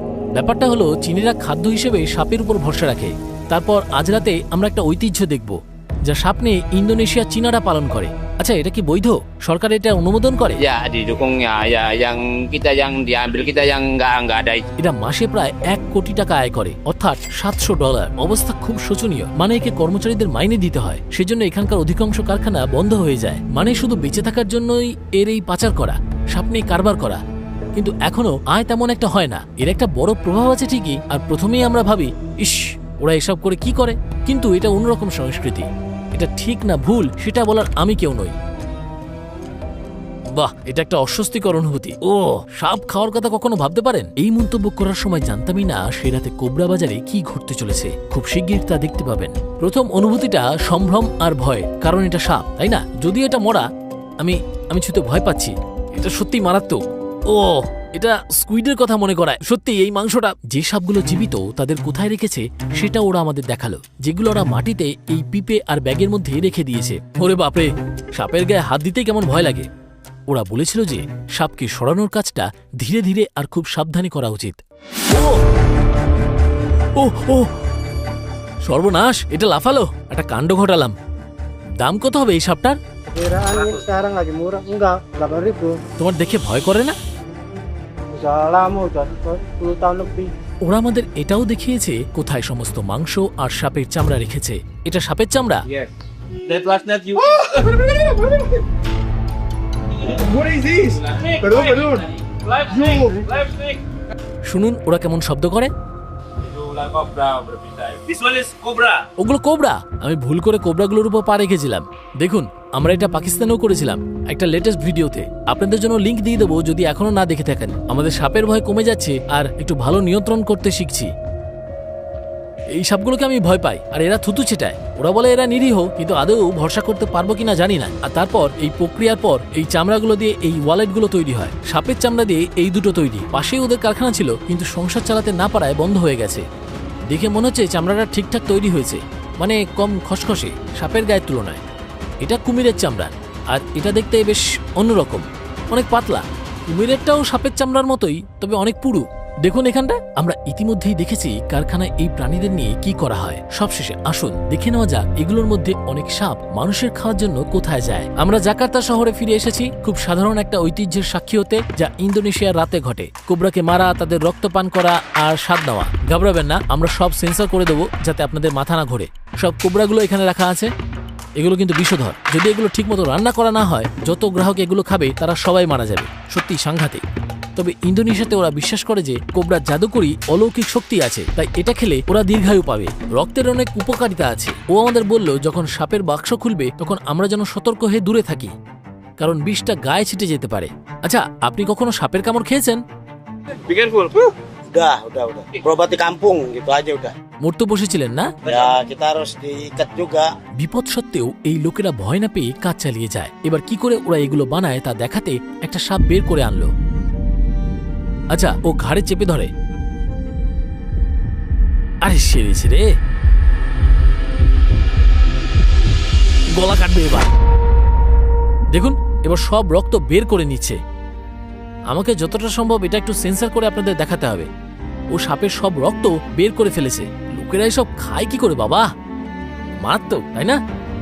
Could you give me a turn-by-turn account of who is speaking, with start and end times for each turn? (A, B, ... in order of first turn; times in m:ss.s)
0:00.4-0:10.6 A
0:10.6-0:14.7 B
0:14.8-0:27.2 A
0:27.8-0:38.4 A
0:40.3-0:53.7 A
0:54.2-1:09.7 A
1:10.3-1:15.4 A
1:17.0-1:17.5 A
1:18.6-1:21.0 A
1:21.8-1:22.8 A
1:23.1-1:25.8 C
1:26.0-1:27.0 A
1:28.1-1:30.3 C
1:30.6-1:35.6 A
1:36.5-1:38.0 D
1:40.0-1:43.8 D
1:44.5-1:45.7 A
1:46.4-1:49.1 D
1:49.2-2:01.1 A
2:02.8-2:16.4 A
2:17.1-2:21.6 A
2:22.2-2:50.7 A
2:51.4-2:57.0 A
2:57.6-3:08.5 A
3:09.2-3:12.8 A
3:13.7-3:14.3 D
3:14.7-3:17.1 E
3:17.4-3:18.3 A
3:18.4-3:18.7 D
3:18.5-3:20.3 E
3:20.6-3:26.7 A
3:28.3-3:29.5 A
3:32.0-3:32.9 A
3:36.6-3:37.3 A
3:38.7-3:40.8 A
3:41.9-3:44.5 A
3:45.1-3:48.9 A
3:49.8-3:50.6 A